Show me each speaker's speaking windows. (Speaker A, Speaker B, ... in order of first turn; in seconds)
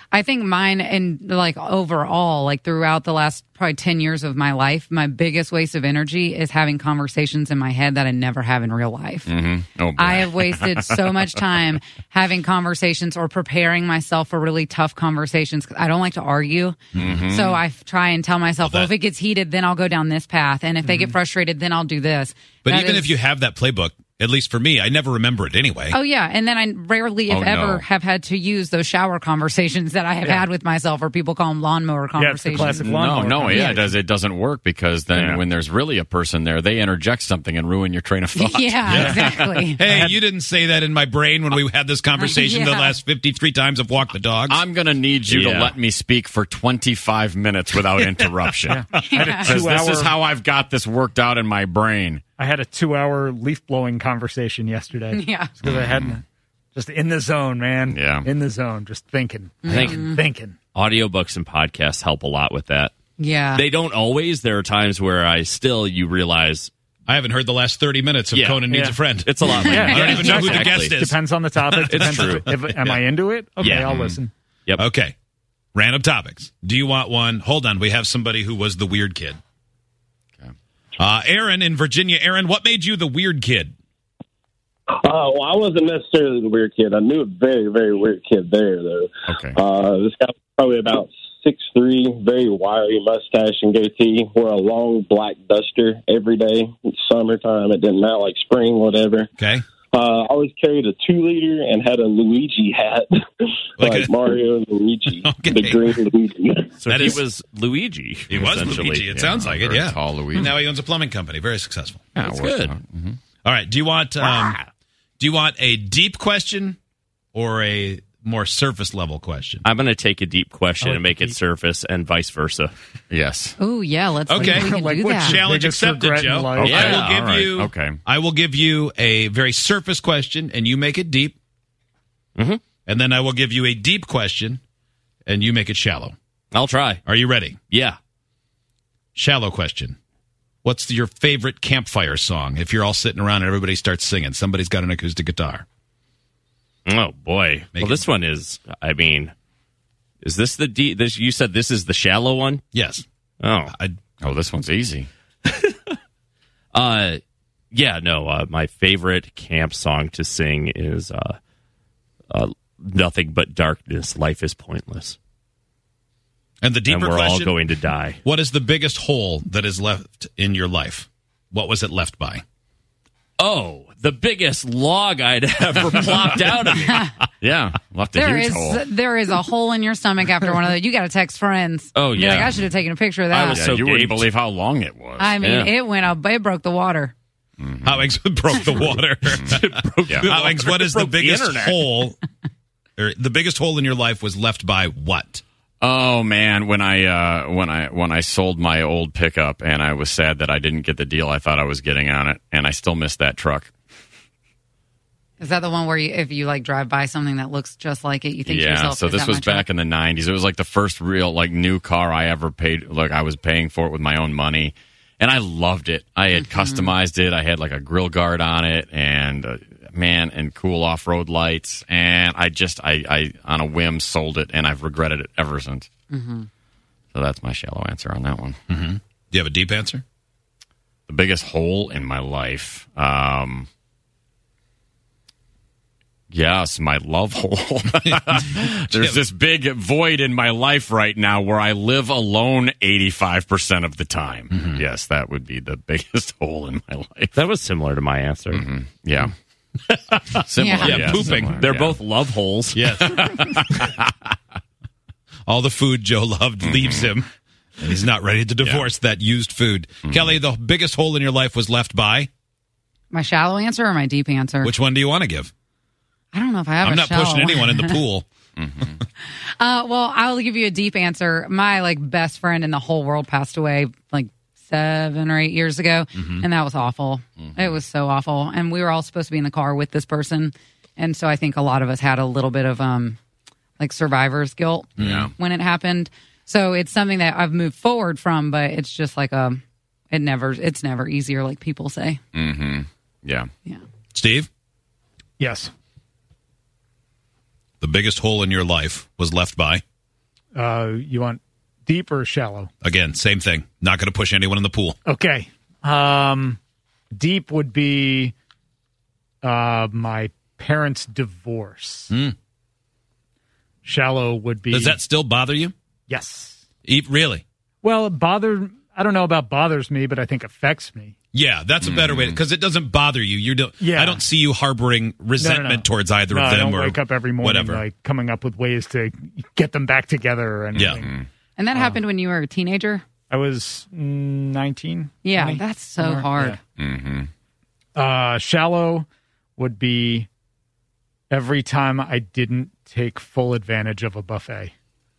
Speaker A: 0.1-9.3, 10.0-23.2, 25.9-32.9, 33.5-33.9, 38.4-39.8, 42.2-43.0, 48.9-49.6, 55.1-55.5, 59.6-60.2, 63.2-63.6, 123.6-125.4, 178.1-183.7, 185.2-187.1, 205.4-209.7, 216.3-216.9, 226.1-226.5, 250.6-251.1, 263.1-264.7, 266.3-268.0, 269.6-283.2, 283.8-292.2, 331.6-333.0, 335.2-336.6
Speaker B: 9.3-11.2, 16.9-17.6, 27.3-27.9, 32.6-39.6, 44.5-48.9, 49.4-52.2, 55.6-56.2, 57.9-58.3, 89.3-89.6, 108.3-110.5, 112.2-113.2, 123.1-123.6, 126.6-128.0, 154.2-155.1, 177.4-178.9, 182.2-182.6, 183.3-185.4, 187.6-188.1, 195.8-203.7, 208.4-225.9, 227.1-228.6, 231.1-233.7, 236.3-247.4, 248.5-249.3, 250.4-252.0, 253.0-254.0, 256.6-257.1, 258.6-258.9, 260.1-260.4, 268.6-268.9, 277.4-277.8, 285.0-285.3, 292.3-293.5, 321.8-322.4, 330.8-331.3, 336.8-337.3
Speaker C: 16.9-17.2, 18.6-18.9, 22.6-26.0, 38.9-39.2, 39.7-44.6, 67.1-72.9, 74.8-75.2, 75.8-79.4, 81.0-83.7, 99.4-99.6, 103.8-104.2, 105.2-106.0, 106.9-107.2, 108.3-112.0, 113.5-114.6, 115.2-116.8, 117.3-119.6, 124.3-131.4, 132.9-134.6, 135.3-136.2, 137.1-137.6, 139.2-140.0, 140.6-145.7, 147.7-148.0, 152.7-153.0, 153.7-154.0, 166.6-167.6, 168.2-172.4, 187.8-189.7, 190.2-192.2, 193.0-195.4, 228.7-230.0, 250.8-251.6, 252.7-253.2, 255.5-257.3, 257.8-262.3, 264.6-265.5, 266.8-268.3, 276.2-276.4, 285.0-285.3, 294.1-294.5, 297.8-299.8, 302.8-305.0, 312.1-312.4, 314.7-315.7, 316.9-317.4, 321.3-327.8, 330.8-331.1
Speaker D: 32.2-33.6, 39.9-40.2, 48.7-50.1, 52.4-56.2, 56.8-60.6, 68.7-69.0, 69.7-74.3, 120.8-121.4, 124.7-126.7, 295.4-295.7, 300.6-302.7, 305.1-306.6, 307.1-308.3, 309.4-312.1, 313.9-315.0, 316.1-316.6, 317.8-321.1, 323.8-324.2, 325.4-331.1, 333.3-336.6, 337.9-339.1, 339.6-340.3, 341.3-344.7
Speaker E: 35.1-35.4, 45.3-45.7, 59.7-60.1, 60.8-62.9, 63.5-66.7, 68.3-68.7, 69.2-71.0, 71.8-73.0, 73.6-74.8, 106.8-109.1, 112.2-112.7, 114.2-114.6, 119.7-122.7, 126.6-127.5, 132.4-132.6, 136.5-137.0, 137.7-138.0, 146.9-149.3, 150.2-152.6, 153.4-153.7, 155.5-155.9, 156.7-157.2, 157.7-161.4, 162.3-165.2, 166.9-168.2, 173.4-177.1, 181.9-182.5, 183.4-184.3, 185.4-185.7, 189.5-191.9, 247.3-248.6, 250.8-253.0
Speaker F: 85.0-89.0, 89.6-99.3, 99.9-103.1, 103.8-106.7